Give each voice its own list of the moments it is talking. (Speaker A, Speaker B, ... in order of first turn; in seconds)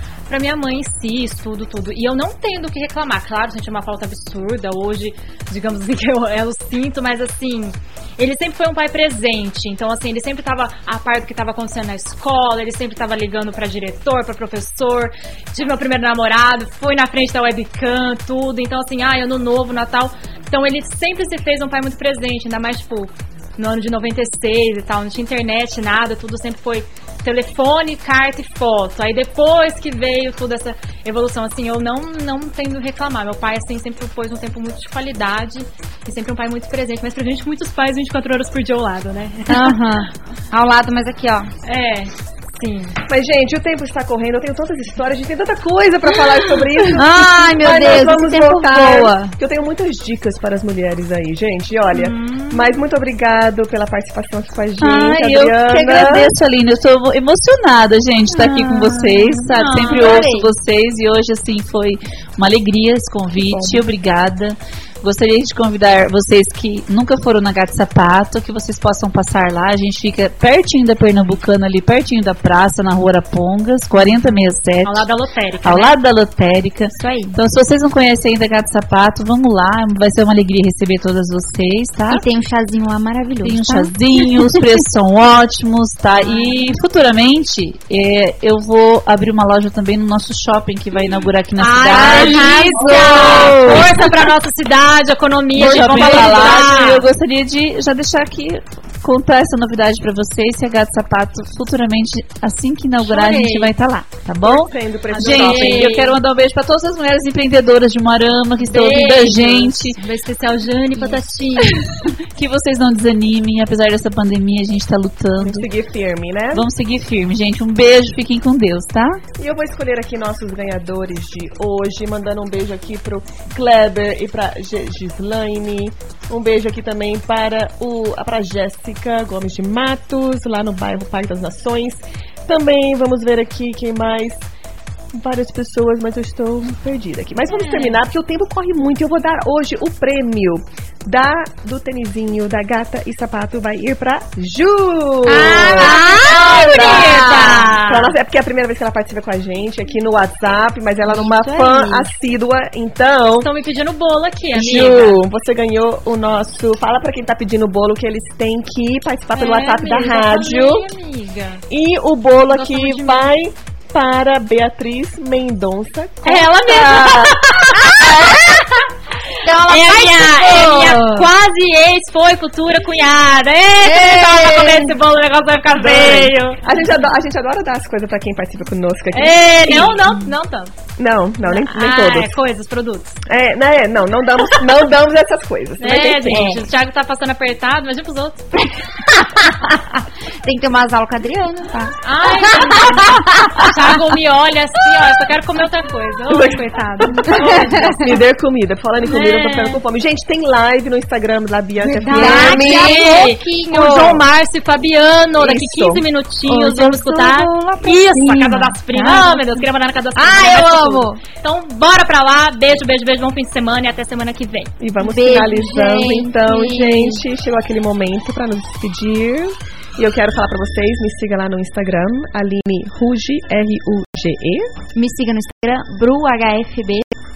Speaker A: 0.3-39.8, 41.6-43.0, 51.9-52.8, 59.5-60.1, 74.8-76.0, 86.2-86.5, 91.6-97.1, 103.0-103.7, 105.1-106.2, 108.6-111.8, 137.5-138.0, 145.3-148.2, 153.4-155.2, 159.3-161.6, 162.5-163.3, 166.2-168.8, 169.6-176.8, 179.1-180.7, 181.4-183.2, 185.8-188.5, 192.0-198.2, 199.0-199.8, 202.1-214.7
Speaker B: 39.5-41.5, 46.9-49.3, 58.3-60.5, 77.0-77.4, 82.1-84.6, 91.9-93.2, 145.6-147.2, 151.0-152.1, 169.4-171.3, 173.8-174.9, 186.2-186.7, 189.1-194.0, 197.2-198.1, 201.8-204.2, 206.5-209.6, 210.2-211.2, 215.0-217.2, 224.9-227.2
Speaker C: 43.1-56.3, 104.4-106.1, 115.4-116.7, 119.4-134.5, 135.1-153.5, 154.5-160.9, 161.7-168.5, 175.7-180.2, 181.0-182.4, 183.3-186.6, 196.3-203.2, 205.4-206.1, 214.8-224.7
Speaker D: 54.8-75.1, 75.6-82.2, 83.4-94.2, 95.5-110.0, 112.3-115.7, 116.5-119.2